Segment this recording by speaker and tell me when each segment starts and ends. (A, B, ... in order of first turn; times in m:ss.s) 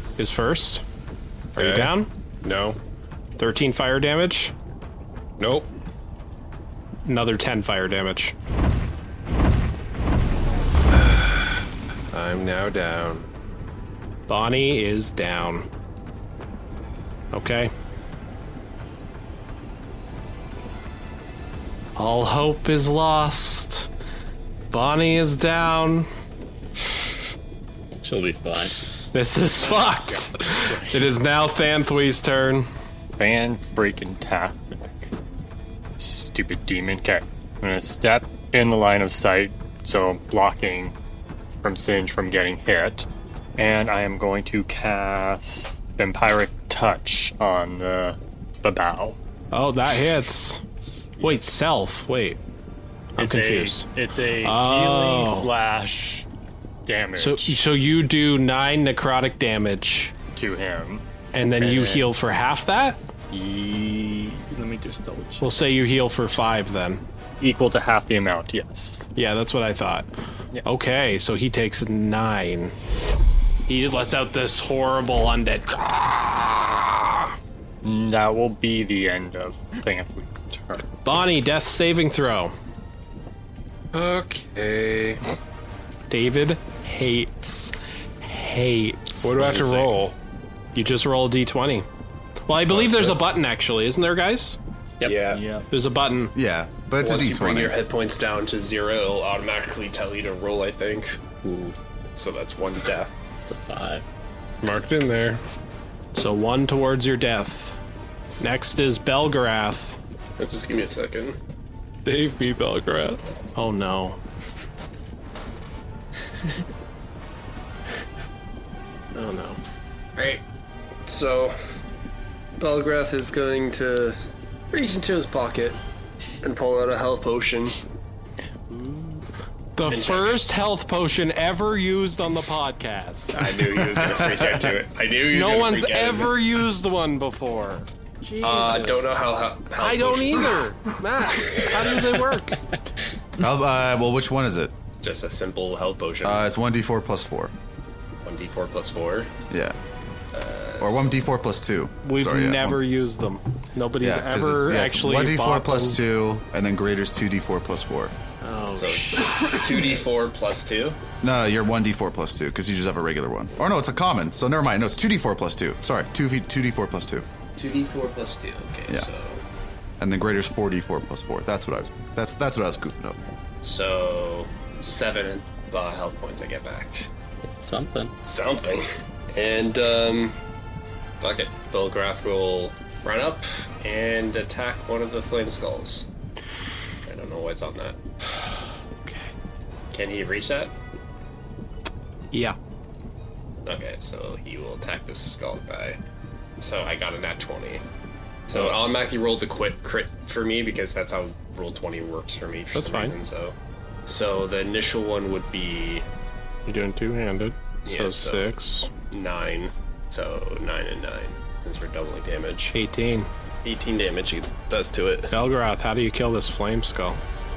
0:00.2-0:00.8 A
0:01.6-0:02.1 A
0:01.6-0:02.8 B
0:03.4-0:04.5 A
0:05.4-0:05.7 B
0:07.1-0:08.4 A
0:10.9-0:11.6 B
0:12.1-0:13.2 A
0:12.3-0:13.1 B
0:14.3-0:15.7 A
0:17.3-0:17.7 A
0:22.0-0:23.9 A
0:24.7-0:26.1 A
0:28.0-0:28.8 C
0:29.1-0:32.7 A
0:29.6-0:31.1 D
0:33.2-0:35.1 D
0:36.0-0:40.9 D
0:41.6-0:49.2 D
0:49.5-0:50.6 A
0:51.2-0:52.4 A
0:53.2-0:53.9 A
0:53.2-0:56.3 D
0:54.4-0:55.5 A
0:56.9-0:57.7 D
0:57.2-1:00.1 A
1:00.4-1:01.0 D
1:01.3-1:03.0 A
1:01.6-1:02.1 D
1:03.3-1:05.5 D
1:05.4-1:07.0 A
1:07.4-1:09.1 D
1:09.2-1:10.1 A
1:10.6-1:12.8 A
1:13.7-1:17.3 A
1:17.8-1:20.9 D
1:21.0-1:22.5 A
1:23.9-1:25.2 B
1:26.1-1:30.1 A
1:29.2-1:30.1 B
1:30.8-1:31.9 A
1:32.5-1:34.6 A
1:35.0-1:35.4 E
1:35.3-1:35.7 D
1:35.7-1:36.3 A
1:36.4-1:37.8 F
1:37.0-1:41.2 E
1:41.4-1:41.8 C
1:42.2-1:43.1 E
1:43.5-1:44.1 C
1:44.6-1:45.4 A
1:46.2-1:47.8 A
1:48.4-1:50.0 A
1:50.4-1:51.4 E
1:52.1-1:53.2 B
1:53.6-1:54.2 A
1:59.1-1:59.6 A
2:00.2-2:00.4 E
2:01.0-2:01.6 E
2:02.6-2:04.2 E
2:04.7-2:05.8 E
2:06.4-2:07.8 E
2:09.8-2:13.4 A
2:09.9-2:10.4 E
2:13.3-2:16.4 E
2:13.6-2:14.5 F
2:15.3-2:18.9 A
2:18.4-2:20.6 E
2:19.8-2:22.6 A
2:23.4-2:24.7 F
2:25.0-2:26.4 E
2:26.2-2:27.5 F
2:28.2-2:29.3 E
2:29.5-2:29.8 F
2:30.3-2:31.1 E
2:30.8-2:32.8 F
2:32.0-2:36.0 A
2:34.0-2:38.1 F
2:38.4-2:40.1 A
2:38.8-2:41.0 E
2:41.2-2:47.3 F
2:47.6-2:49.4 E
2:50.0-2:53.2 F
2:53.6-2:57.1 E
2:57.4-2:58.1 C
2:58.2-3:00.4 E
3:01.2-3:06.1 E
3:07.1-3:08.0 E
3:09.9-3:10.7 E
3:13.7-3:16.0 E
3:16.6-3:17.8 E
3:18.5-3:23.6 E
3:22.7-3:23.2 A
3:24.1-3:26.1 E
3:26.7-3:28.9 A
3:27.9-3:28.5 E
3:29.1-3:32.8 E
3:32.7-3:33.3 A
3:33.6-3:35.3 E
3:35.3-3:37.2 A